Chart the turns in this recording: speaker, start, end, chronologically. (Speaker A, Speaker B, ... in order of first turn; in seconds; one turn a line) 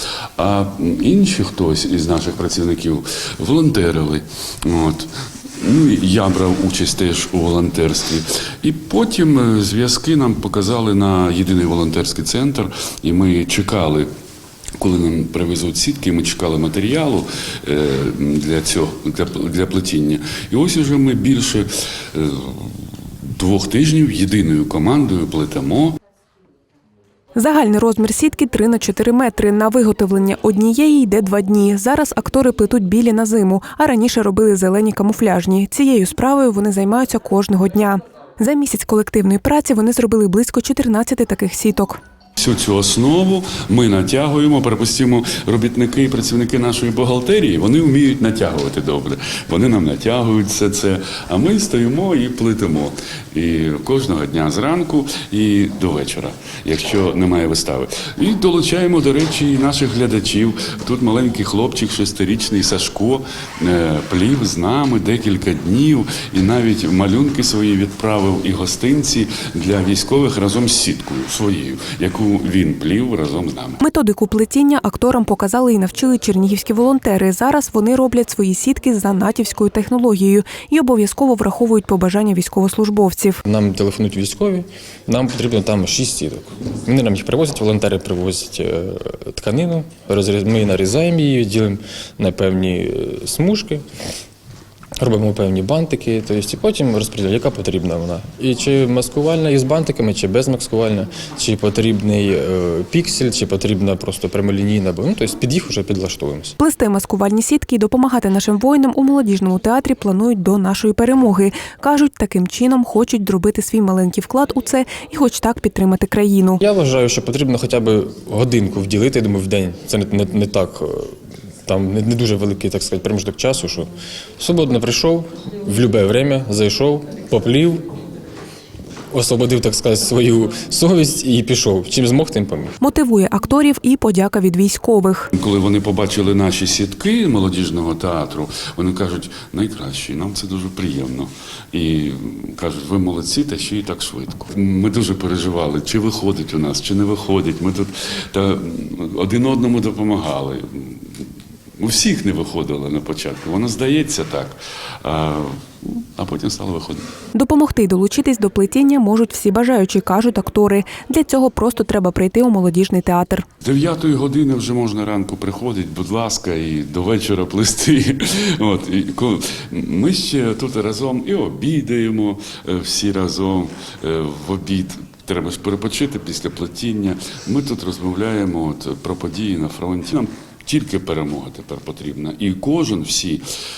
Speaker A: 0.4-14.1
Speaker A: 14.8-22.7
Speaker A: 23.3-26.0
Speaker B: 27.3-42.0
Speaker A: 42.4-73.8
Speaker B: 73.8-83.4
Speaker C: 83.4-93.8
Speaker C: 95.0-106.5
Speaker B: 106.6-116.6
Speaker C: 116.6-127.9
Speaker C: 129.1-132.8
Speaker B: 132.8-135.3
Speaker A: 135.3-151.2
Speaker A: 151.8-157.0
Speaker B: 157.3-163.4
Speaker A: 163.6-183.4